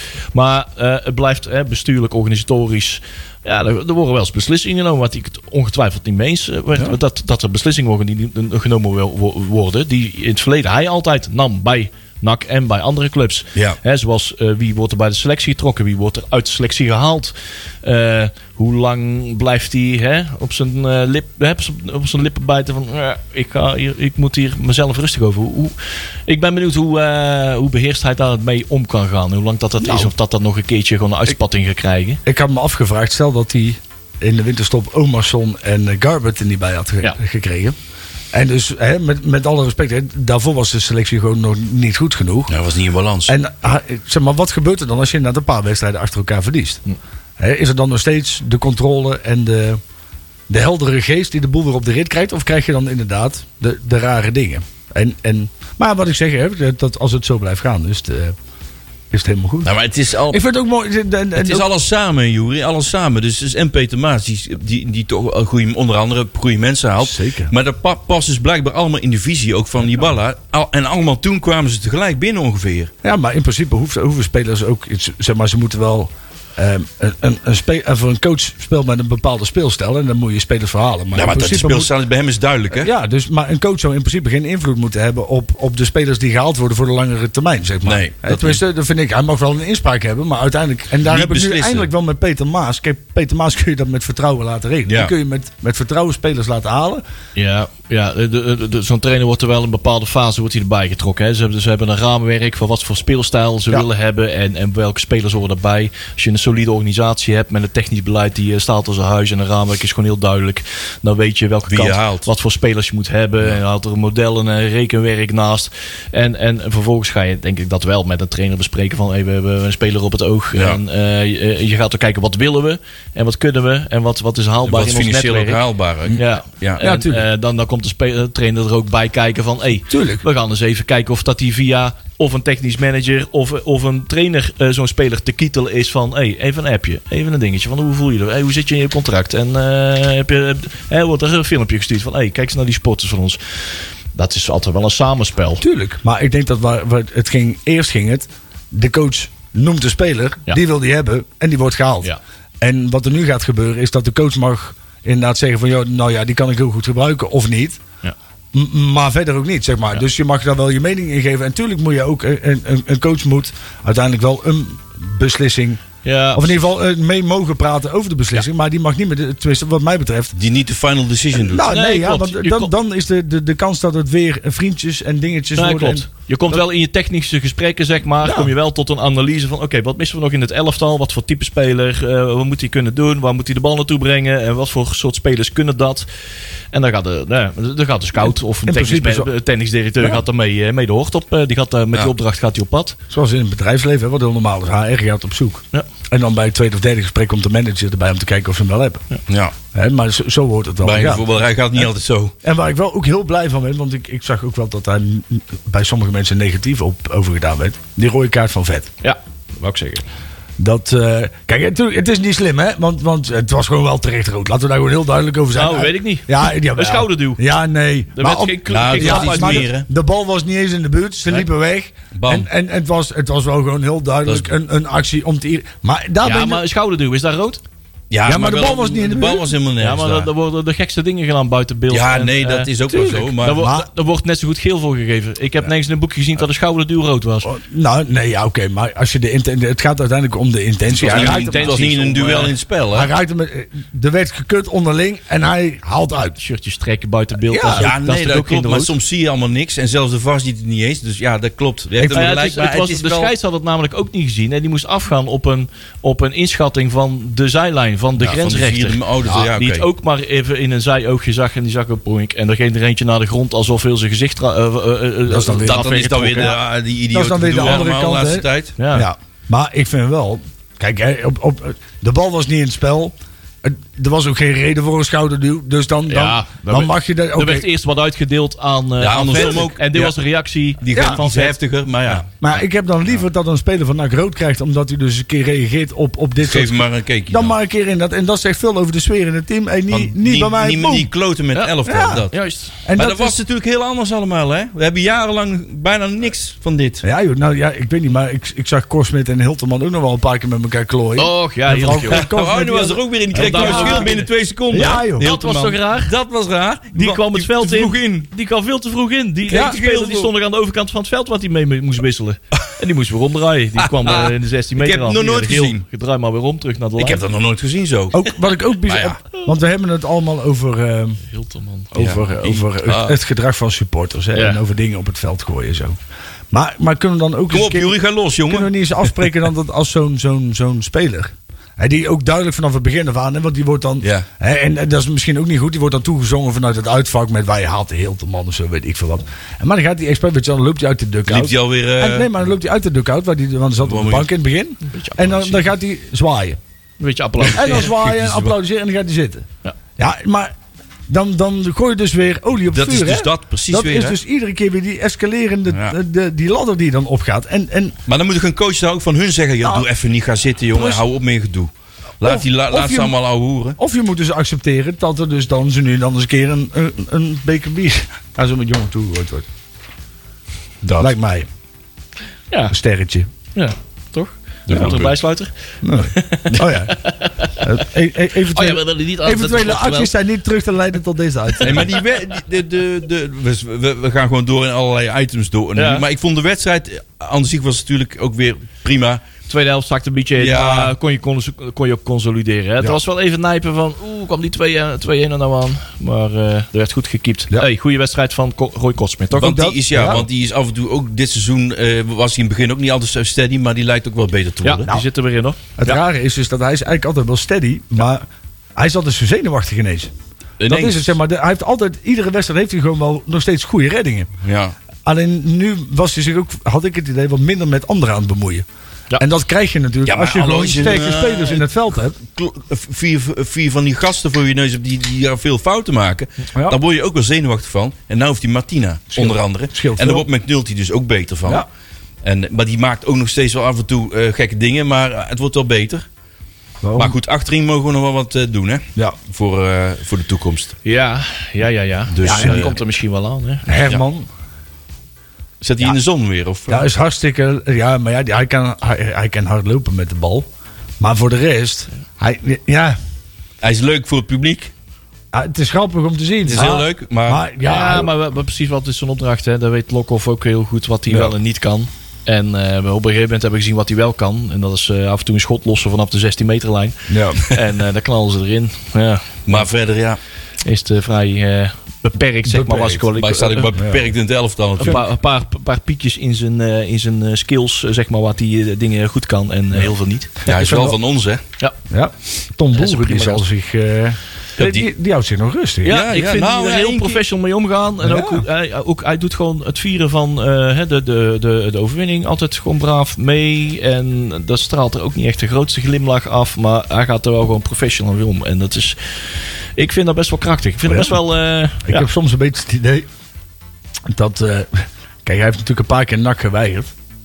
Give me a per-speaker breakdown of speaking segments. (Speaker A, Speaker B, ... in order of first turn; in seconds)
Speaker A: 0.3-32.2, 97.4-125.6, 126.2-145.6, 166.0-166.5, 171.7-172.7, 175.6-186.1, 186.7-193.0, 209.0-210.1, 215.5-217.4, 218.1-219.7, 226.2-227.6, 229.8-237.5, 241.0-242.6, 246.4-248.9, 252.1-266.6, 268.8-269.1, 276.1-281.6, 291.5-292.8, 301.2-302.3, 303.3-304.3, 304.8-306.1, 306.9-317.2, 321.3-322.0, 324.3-324.6, 344.8-345.7, 347.0-347.9, 373.6-377.8, 378.5-380.1, 385.8-386.1, 389.5-399.7, 404.6-405.9, 440.8-443.8, 457.6-469.7, 470.6-473.8, 474.8-480.5, 482.7-483.4, 485.8-502.1
Speaker B: 29.8-30.1, 32.2-37.8, 38.3-42.5, 43.3-46.8, 47.4-49.8, 50.5-58.4, 59.1-59.7, 60.3-61.7, 67.0-67.5, 73.0-81.9, 82.7-97.0, 126.8-127.2, 129.9-130.2, 145.6-157.8, 158.5-165.8, 166.3-170.3, 171.4-176.6, 178.2-178.5, 188.7-189.3, 193.1-199.0, 199.7-201.3, 202.4-208.9, 210.6-226.6, 228.2-229.5, 232.9-233.9, 237.4-241.9, 242.9-246.4, 247.5-247.9, 252.0-252.3, 265.3-265.9, 267.1-277.7, 280.9-281.2, 282.4-291.1, 291.9-292.3, 292.8-293.4, 297.0-304.2, 304.7-305.3, 309.5-309.8, 318.1-321.2, 321.9-326.0, 326.5-346.6, 347.4-349.5, 350.0-350.5, 351.1-358.0, 360.7-361.0, 362.2-363.1, 363.8-369.5, 371.0-371.5, 372.7-373.3, 375.8-377.0, 377.6-381.9, 399.4-400.3, 405.8-408.2, 408.8-410.1, 410.7-414.3, 415.1-418.7, 419.2-422.2, 429.1-430.3, 436.8-437.1, 442.2-442.7, 443.7-444.3, 446.7-450.5, 451.0-453.0, 455.3-458.1, 467.1-467.4, 472.4-473.1, 473.8-474.1, 480.5-481.0, 481.9-486.1, 488.0-488.4, 500.9-501.2, 501.8-503.1, 504.1-506.9
Speaker C: 42.5-43.3, 59.6-60.4, 61.4-72.9, 81.1-82.9, 87.8-88.6, 91.0-91.9, 94.9-95.1, 111.7-112.3, 124.7-126.8, 170.3-171.7, 199.3-199.5, 200.8-202.3, 218.7-219.9, 222.2-222.5, 228.1-230.3, 231.9-233.7, 240.9-243.1, 247.8-253.3, 258.2-259.9, 265.6-268.8, 279.0-280.2, 280.8-282.3, 286.4-287.6, 289.9-297.0, 302.1-308.3, 309.5-310.3, 313.8-315.8, 317.0-318.3, 318.8-319.2, 322.0-323.2, 327.5-328.7, 341.3-342.3, 343.8-344.3, 347.6-348.5, 352.7-354.2, 355.7-356.0, 358.1-363.8, 374.7-375.1, 381.6-389.2, 390.4-390.9, 399.4-404.9, 410.6-411.1, 414.4-414.8, 420.1-431.7, 432.2-436.1, 437.0-440.8, 442.1-442.8, 445.6-446.9, 453.6-454.7, 456.5-457.4, 469.5-470.2, 473.1-475.0, 480.5-481.4, 484.6-484.9, 485.9-487.2